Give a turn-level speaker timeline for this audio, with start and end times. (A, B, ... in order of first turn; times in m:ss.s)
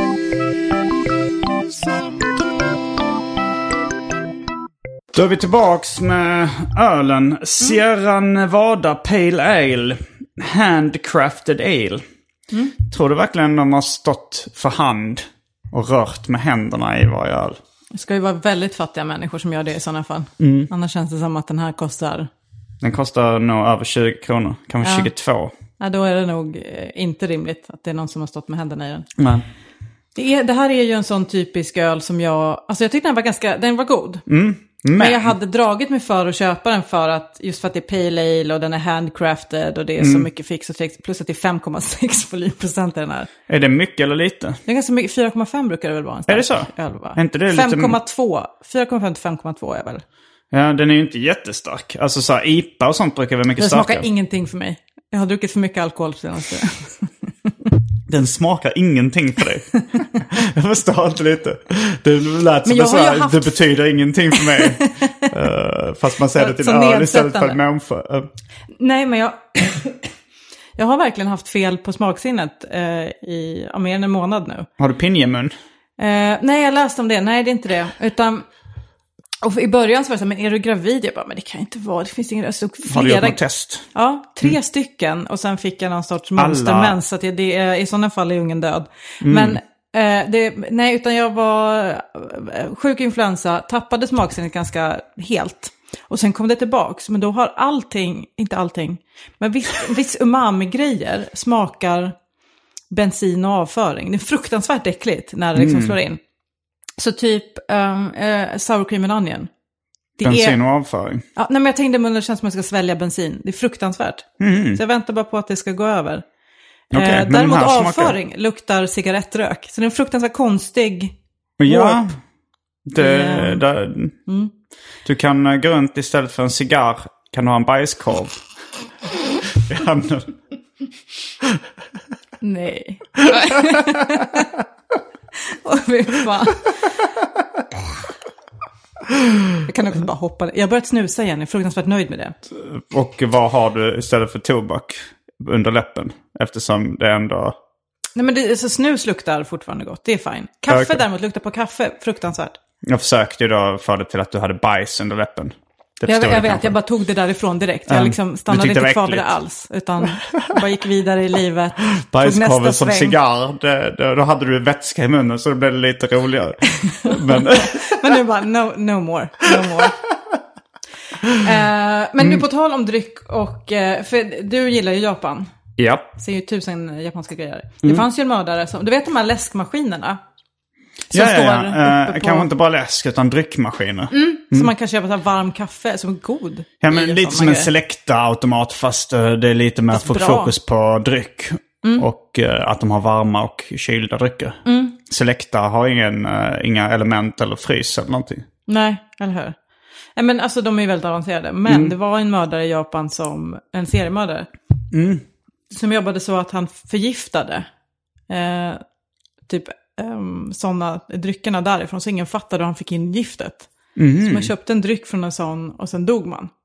0:05.1-0:12.0 A
0:12.9-0:17.6 A
0:17.9-0:22.3 B
0:20.4-0:20.7 A
0:22.8-0:25.5 A
0:24.8-0:25.1 B
0:25.8-0:29.1 B
0:29.2-0:29.4 A
0:30.1-0:34.2 B
0:34.3-0:35.3 A
0:34.9-0:43.3 B
0:40.0-0:40.3 A
0:43.5-0:44.6 A
0:44.6-0:50.0 B
0:46.3-0:48.0 A
0:50.5-0:54.0 A
0:53.6-0:57.5 B
0:58.1-1:08.3 A
1:02.6-1:03.6 B
1:04.4-1:05.3 B
1:06.3-1:07.6 B
1:08.8-1:10.1 B
1:10.8-1:14.7 B
1:14.8-1:15.5 A
1:16.0-1:18.4 B
1:19.4-1:23.4 B
1:22.8-1:23.8 A
1:23.9-1:42.1 B
1:26.4-1:27.0 A
1:29.2-1:29.6 A
1:42.9-1:46.2 B
1:45.5-1:46.0 A
1:47.0-1:49.5 B
1:50.2-1:50.6 B
1:50.2-1:51.2 A
1:51.4-1:56.2 B
1:54.4-1:54.8 A
1:56.9-2:01.1 B
1:56.9-1:58.2 A
2:01.6-2:02.2 A
2:01.6-2:02.1 B
2:02.9-2:04.2 A
2:03.0-2:03.6 B
2:05.0-2:08.4 A
2:09.5-2:10.3 A
2:12.4-2:14.5 B
2:15.5-2:16.8 B
2:19.6-2:22.4 B
2:22.5-2:27.6 A
2:28.2-2:32.6 B
2:30.7-2:31.0 A
2:32.8-2:36.7 A
2:36.0-2:43.2 B
2:37.9-2:39.3 A
2:42.0-2:48.2 A
2:46.8-2:50.0 B
2:51.3-2:55.5 B
2:55.8-2:56.1 A
2:56.2-3:00.2 B
3:01.1-3:02.5 B
3:01.1-3:04.7 A
3:04.1-3:07.7 B
3:06.8-3:18.4 A
3:09.9-3:10.5 B
3:14.6-3:15.0 B
3:18.7-3:19.5 B
3:20.2-3:24.5 B
3:21.7-3:21.9 A
3:24.9-3:25.2 A
3:25.7-3:27.7 B
3:28.3-3:28.8 B
3:29.5-3:33.7 B
3:34.0-3:34.5 A
3:34.2-3:36.5 B